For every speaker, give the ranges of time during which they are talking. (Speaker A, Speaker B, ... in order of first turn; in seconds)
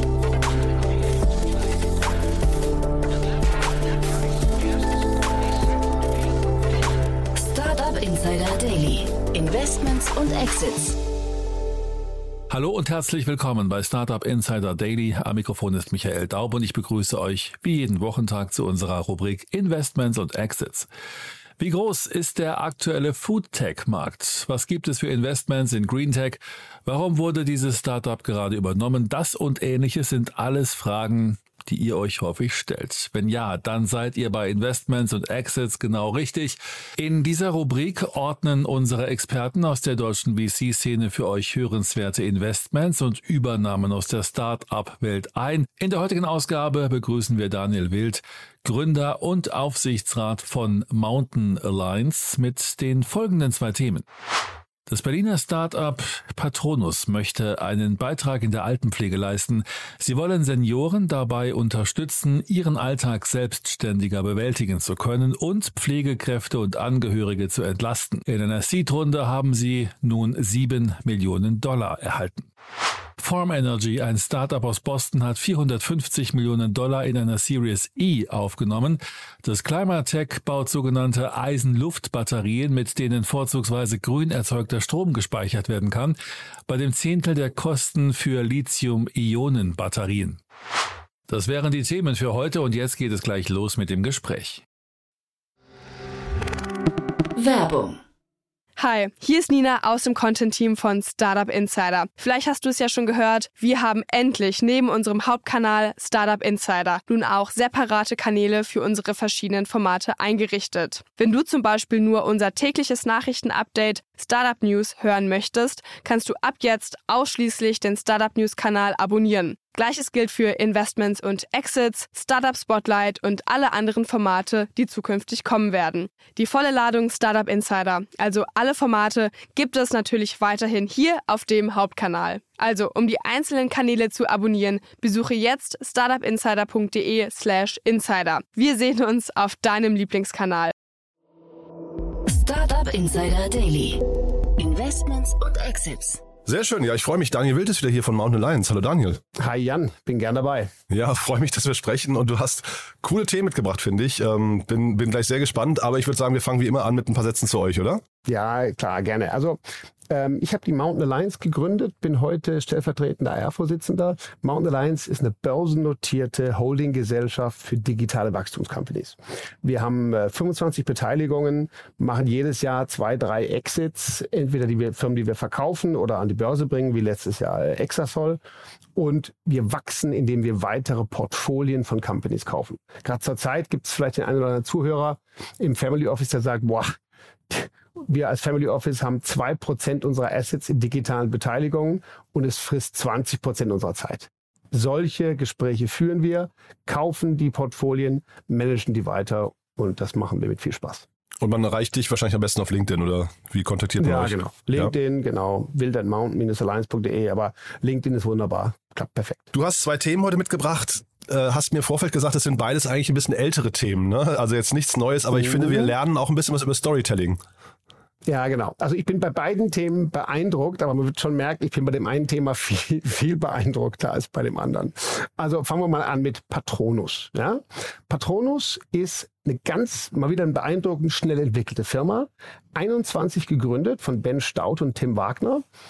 Speaker A: 7.3-11.0, 97.4-98.0, 142.3-144.0, 144.6-146.2
Speaker B: 12.5-20.9, 21.6-54.1, 54.9-72.5, 73.2-86.2, 86.7-90.4, 91.3-94.6
Speaker C: 98.8-140.7
Speaker D: 146.5-149.2, 150.9-158.0, 201.4-204.9, 209.5-217.4
Speaker E: 149.4-150.7, 158.3-159.6, 160.1-178.4, 179.0-187.0, 187.5-201.1, 204.0-209.5, 215.3-215.9, 218.3-235.6